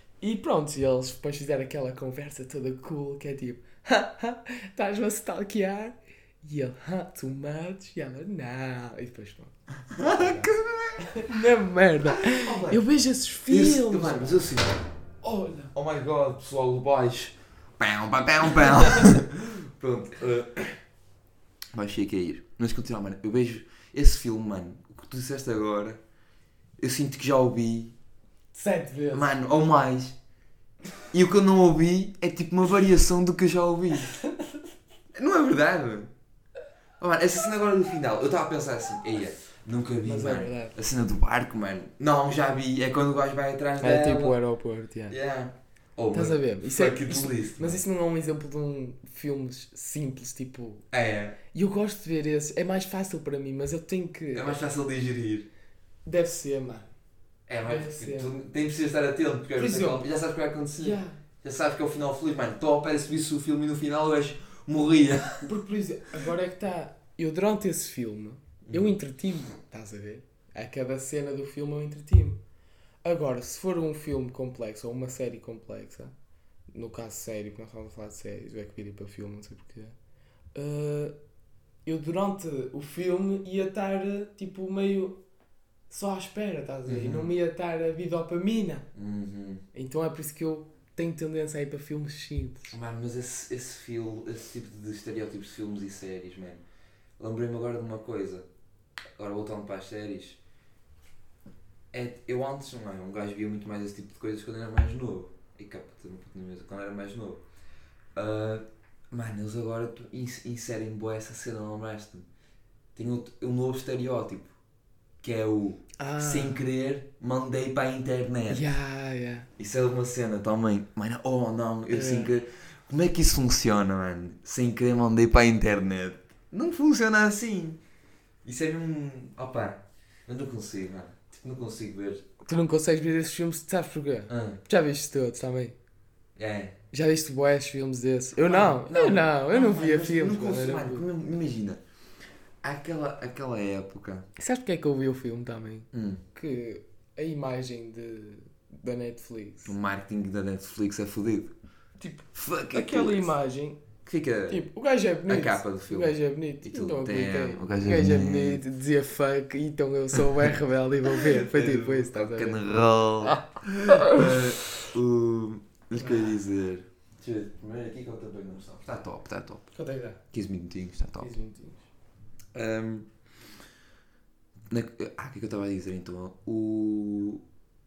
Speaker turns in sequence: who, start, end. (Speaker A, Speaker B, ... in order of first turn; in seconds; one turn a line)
Speaker A: 0.2-14.4
Speaker B: 9.9-11.1
Speaker B: 12.1-12.8
Speaker B: 13.5-14.8
Speaker A: 15.2-15.7
Speaker B: 15.7-20.8
Speaker B: 21.7-26.0
Speaker B: 26.8-27.9
Speaker A: 28.5-29.4
Speaker B: 29.1-30.2
Speaker B: 31.1-34.2
Speaker B: 35.1-36.1
Speaker B: 37.0-44.4
Speaker A: 40.0-40.8
Speaker A: 43.8-45.2
Speaker B: 45.1-47.8
Speaker A: 46.1-50.9
Speaker B: 50.9-51.4
Speaker A: 51.5-54.6
Speaker B: 54.3-55.5
Speaker A: 56.1-56.9
Speaker B: 57.5-65.5
Speaker A: 57.6-58.3
Speaker A: 59.5-60.1
Speaker A: 60.8-61.2
Speaker A: 65.4-72.4
Speaker B: 68.6-68.9
Speaker A: 73.0-76.1
Speaker A: 76.7-80.0
Speaker A: 80.5-81.1
Speaker A: 81.9-85.2
Speaker A: 85.9-88.9
Speaker B: 86.9-87.3
Speaker B: 88.9-89.6
Speaker A: 89.7-92.8
Speaker B: 92.7-96.6
Speaker B: 97.2-98.5
Speaker B: 99.2-100.4
Speaker B: 101.9-107.4
Speaker B: 108.2-112.3
Speaker B: 113.0-114.5
Speaker B: 115.2-118.7
Speaker A: 116.0-116.6
Speaker A: 118.5-119.5
Speaker B: 119.6-127.8
Speaker A: 121.9-122.3
Speaker B: 128.4-132.2
Speaker A: 132.4-135.8
Speaker B: 134.3-134.6
Speaker B: 136.4-136.8
Speaker A: 136.9-141.1
Speaker B: 138.4-141.8
Speaker B: 142.6-144.3
Speaker A: 144.4-149.8
Speaker B: 145.9-146.2
Speaker B: 149.7-151.5
Speaker A: 152.0-153.8
Speaker B: 152.3-153.3
Speaker B: 154.1-154.7
Speaker A: 154.5-164.5
Speaker B: 155.3-158.6
Speaker B: 161.1-169.7
Speaker A: 166.0-166.3
Speaker A: 169.7-170.2
Speaker B: 170.3-171.3
Speaker A: 171.2-171.8
Speaker B: 172.5-173.1
Speaker B: 174.7-177.4